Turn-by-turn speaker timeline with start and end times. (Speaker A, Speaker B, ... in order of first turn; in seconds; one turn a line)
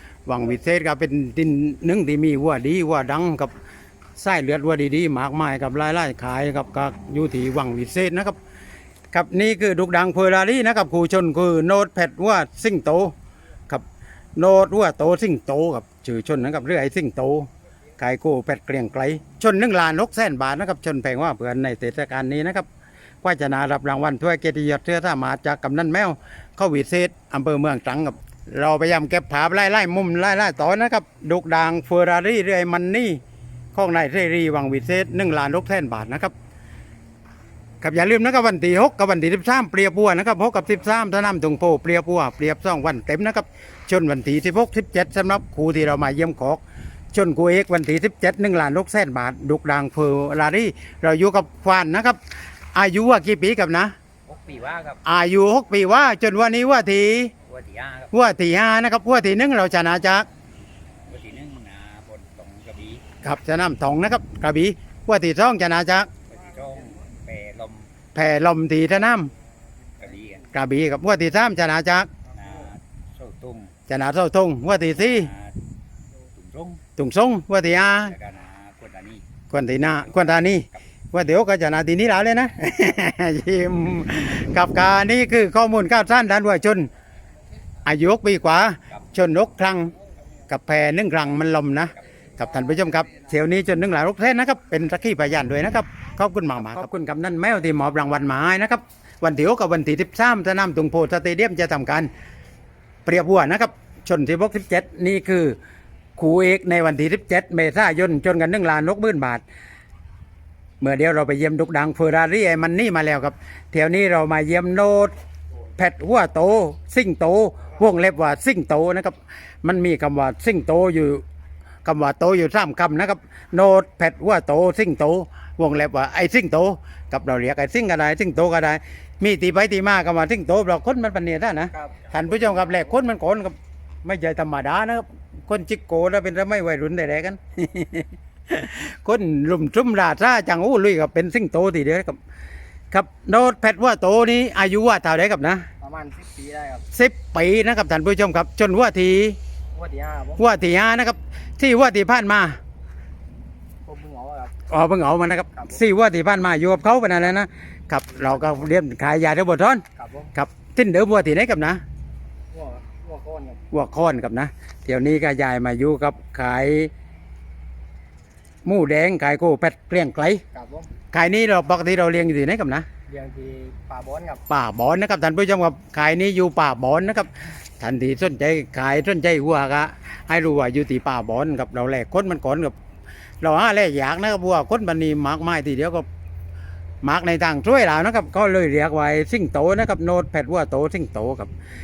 Speaker A: 0.3-3.5
Speaker A: 4.2-8.4
Speaker A: 9.1-13.1
Speaker A: 14.4-22.7
Speaker A: 23.2-33.2
Speaker A: 33.7-36.3
Speaker A: 37.8-46.6
Speaker A: 47.1-52.2
Speaker A: 52.7-53.9
Speaker B: 54.3-55.0
Speaker A: 55.0-57.3
Speaker B: 57.5-58.1
Speaker A: 58.1-60.3
Speaker B: 61.1-63.0
Speaker A: 63.2-66.1
Speaker B: 66.3-67.9
Speaker A: 68.2-69.3
Speaker B: 70.0-70.5
Speaker A: 70.5-72.1
Speaker B: 72.3-73.7
Speaker A: 73.9-75.3
Speaker B: 75.1-75.5
Speaker B: 76.3-76.8
Speaker A: 77.0-78.2
Speaker B: 78.1-79.2
Speaker A: 79.5-86.9
Speaker A: 87.8-89.9
Speaker A: 90.5-102.1
Speaker A: 103.0-105.6
Speaker A: 106.2-109.4
Speaker A: 110.8-115.1
Speaker A: 115.8-121.2
Speaker A: 121.8-142.2
Speaker C: 131.7-132.1
Speaker A: 142.9-145.7
Speaker C: 145.8-146.9
Speaker A: 146.9-149.4
Speaker C: 149.7-150.4
Speaker A: 150.4-152.6
Speaker C: 153.8-154.6
Speaker A: 154.7-161.8
Speaker C: 160.0-160.3
Speaker C: 162.5-163.6
Speaker A: 163.7-166.9
Speaker A: 168.7-170.4
Speaker C: 170.5-170.9
Speaker A: 171.1-172.9
Speaker C: 173.1-174.4
Speaker A: 174.5-182.8
Speaker A: 183.4-186.1
Speaker A: 187.0-191.5